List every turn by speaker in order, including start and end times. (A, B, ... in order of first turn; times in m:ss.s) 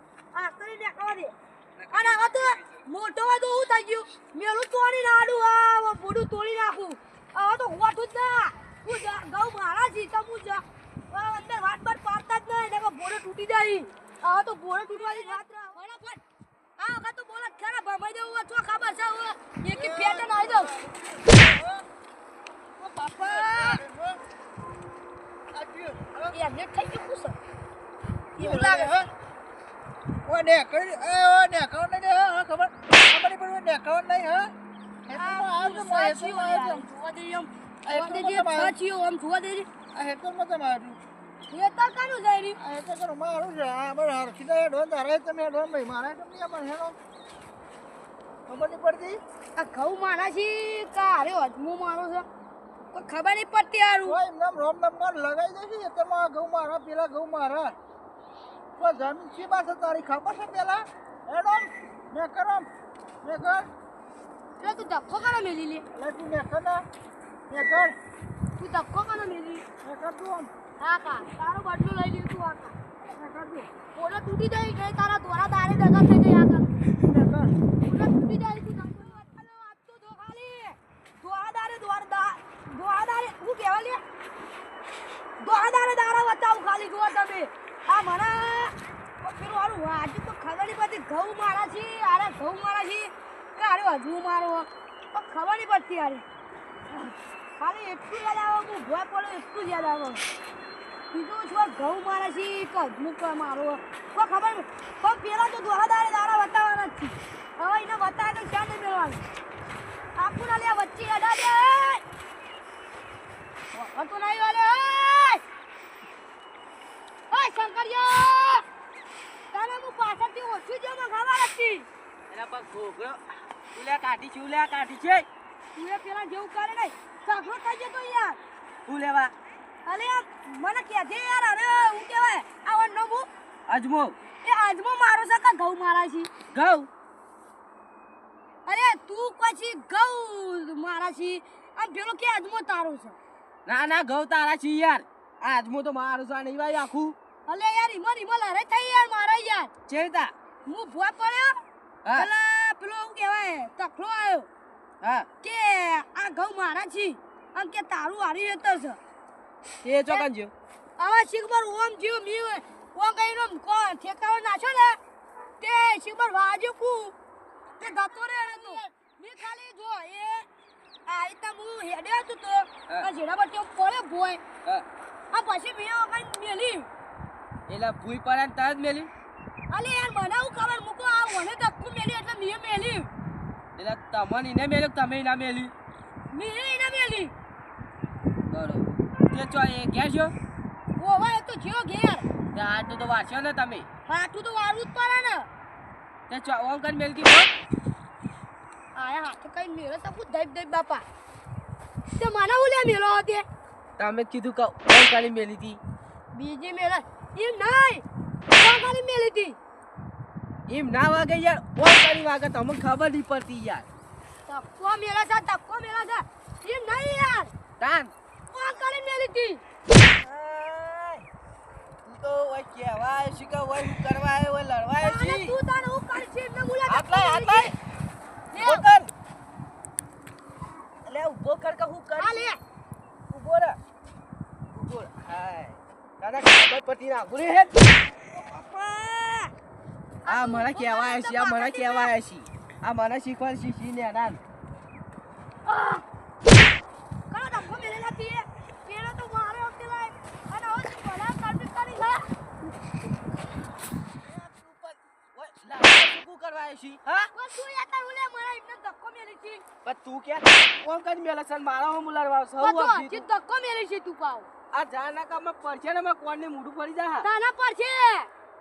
0:00.3-0:01.3 A
0:01.9-0:16.2 A
0:16.8-0:20.7 A
0:19.7-0:21.8 B
0:22.9-0:23.8 A
0:22.9-0:24.2 B
0:25.5-0:26.4 B
0:26.3-0:27.4 A
0:28.4-0:29.0 A
0:28.4-0:29.0 B
0:30.2-0:34.5 B
0:35.1-0:36.9 B
0:35.1-0:39.7 A
0:37.8-0:38.7 B
0:39.9-0:41.0 B
0:41.5-0:42.6 A
0:42.6-0:47.0 B
0:48.5-0:49.2 B
0:49.6-0:52.3 A
0:52.9-0:54.2 A
0:54.0-0:57.8 B
0:58.8-1:02.7 B
1:03.2-1:03.7 B
1:04.6-1:05.8 A
1:05.9-1:06.8 B
1:07.5-1:08.0 B
1:08.6-1:09.6 A
1:09.8-1:10.5 B
1:10.8-1:12.7 A
1:13.0-1:13.7 B
1:13.9-1:16.8 A
1:17.0-1:17.6 B
1:17.8-1:24.0 A
1:25.4-1:36.2 A
1:37.6-1:40.2 A
1:41.1-1:49.2 A
1:50.2-1:52.0 A
1:53.7-1:55.4 A
1:57.3-1:58.6 A
1:59.5-2:01.9 A
2:02.3-2:03.2 C
2:03.7-2:05.2 C
2:05.7-2:08.4 A
2:08.8-2:09.3 C
2:09.8-2:13.3 A
2:13.7-2:14.2 C
2:14.4-2:16.3 A
2:16.5-2:16.9 C
2:18.6-2:23.2 A
2:23.6-2:27.2 C
2:27.4-2:29.7 A
2:29.9-2:30.3 C
2:30.6-2:31.6 A
2:32.1-2:34.5 A
2:35.0-2:35.3 C
2:35.4-2:39.0 A
2:39.8-2:40.5 C
2:41.0-2:45.0 A
2:45.6-2:47.1 A
2:47.8-2:50.5 A
2:51.0-2:54.4 A
2:55.3-2:56.9 A
2:57.7-2:59.1 C
2:59.7-3:03.1 A
3:03.8-3:05.7 C
3:06.3-3:07.3 A
3:08.5-3:10.3 C
3:11.0-3:12.2 A
3:12.5-3:13.8 C
3:14.1-3:15.4 A
3:16.3-3:17.5 C
3:19.0-3:21.0 A
3:22.2-3:23.4 A
3:24.0-3:25.8 C
3:26.3-3:28.0 A
3:28.6-3:29.6 A
3:30.7-3:33.8 C
3:34.5-3:37.5 A
3:37.8-3:38.1 C
3:38.5-3:39.6 A
3:40.2-3:41.2 C
3:42.0-3:45.5 C
3:45.0-3:47.7 A
3:46.9-3:47.7 C
3:48.5-3:48.9 A
3:48.6-3:49.1 C
3:51.0-3:52.5 C
3:52.2-3:52.6 A
3:53.3-3:53.8 C
3:54.7-3:57.7 C
3:58.3-3:59.5 A
4:00.2-4:02.1 A
4:00.3-4:04.4 C
4:05.7-4:06.0 A
4:07.3-4:12.3 A
4:14.2-4:17.3 C
4:17.3-4:19.6 A
4:19.8-4:23.2 C
4:22.6-4:24.5 A
4:24.7-4:27.3 C
4:27.2-4:28.3 A